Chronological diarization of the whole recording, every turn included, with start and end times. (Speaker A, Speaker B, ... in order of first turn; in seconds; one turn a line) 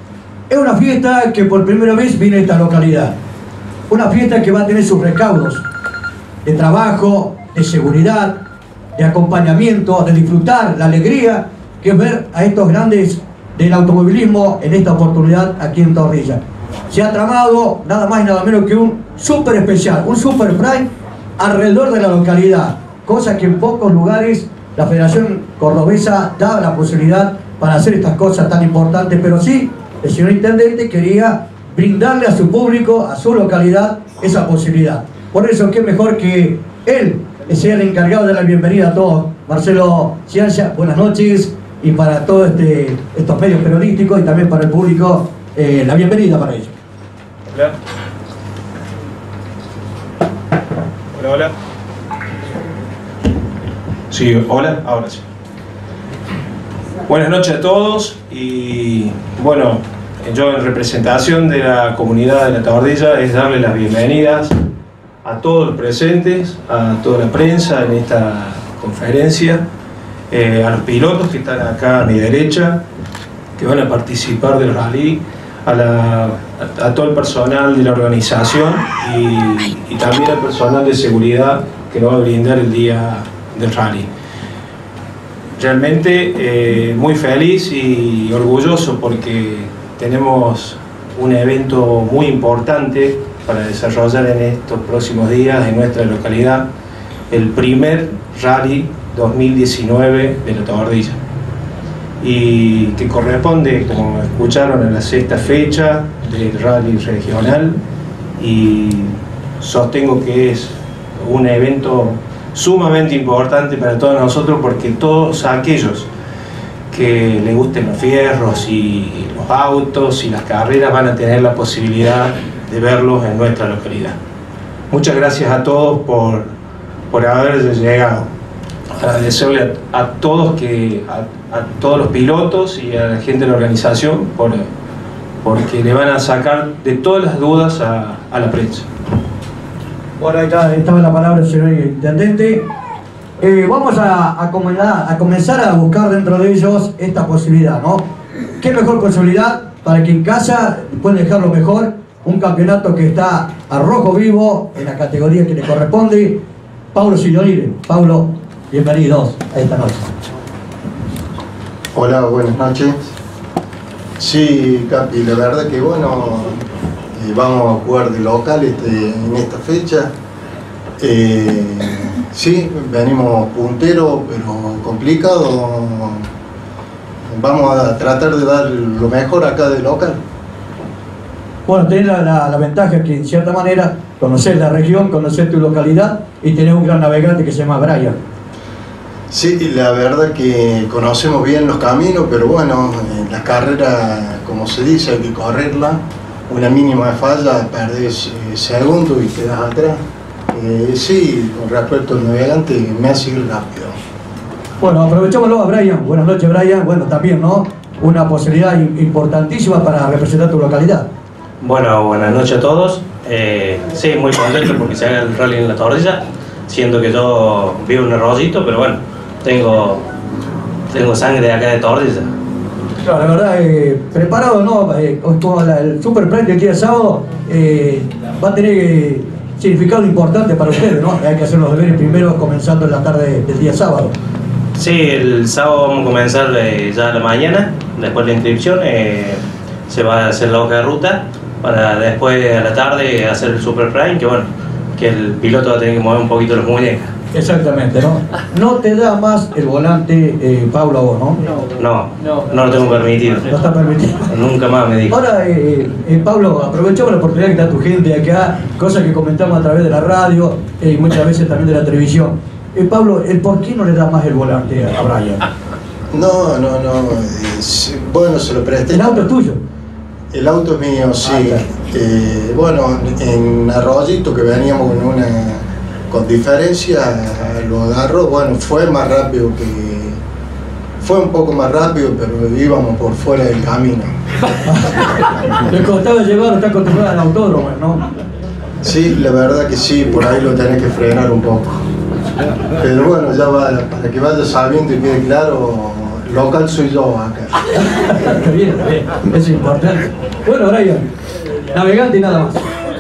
Speaker A: 0.5-3.1
Speaker A: 3.9-5.6
Speaker A: 6.5-8.4
Speaker A: 9.0-20.9
Speaker A: 21.4-46.8
Speaker B: 51.1-51.5
Speaker B: 54.1-55.2
Speaker B: 57.1-64.5
Speaker B: 65.2-69.6
Speaker B: 70.3-72.8
Speaker B: 73.6-84.1
Speaker B: 85.6-96.7
Speaker B: 97.3-101.2
Speaker B: 102.2-107.8
Speaker B: 108.4-116.1
Speaker B: 116.9-124.2
Speaker B: 124.9-126.5
Speaker B: 127.1-128.3
Speaker B: 128.9-134.7
Speaker B: 135.4-138.9
Speaker A: 140.2-142.7
Speaker A: 143.4-148.1
Speaker A: 148.6-156.4
Speaker A: 156.9-160.1
Speaker C: 161.9-163.0
Speaker C: 164.2-166.6
Speaker C: 167.1-170.1
Speaker C: 171.0-176.2
Speaker C: 177.3-180.2
Speaker A: 181.7-188.2
Speaker C: 189.3-200.0
Speaker C: 200.5-204.0
Speaker A: 204.8-211.1
Speaker D: 211.6-220.1
Speaker D: 220.9-222.3
Speaker A: 223.1-234.2
Speaker D: 234.8-247.1
Speaker A: 247.3-251.6
Speaker D: 251.8-253.5
Speaker A: 253.5-254.3
Speaker D: 254.3-255.2
Speaker A: 255.1-265.4
Speaker C: 266.1-269.2
Speaker A: 268.9-269.6
Speaker C: 270.3-280.2
Speaker A: 271.3-271.6
Speaker C: 281.0-284.2
Speaker A: 284.6-288.0
Speaker C: 288.8-291.8
Speaker C: 292.7-297.6
Speaker A: 297.9-301.1
Speaker A: 301.7-302.6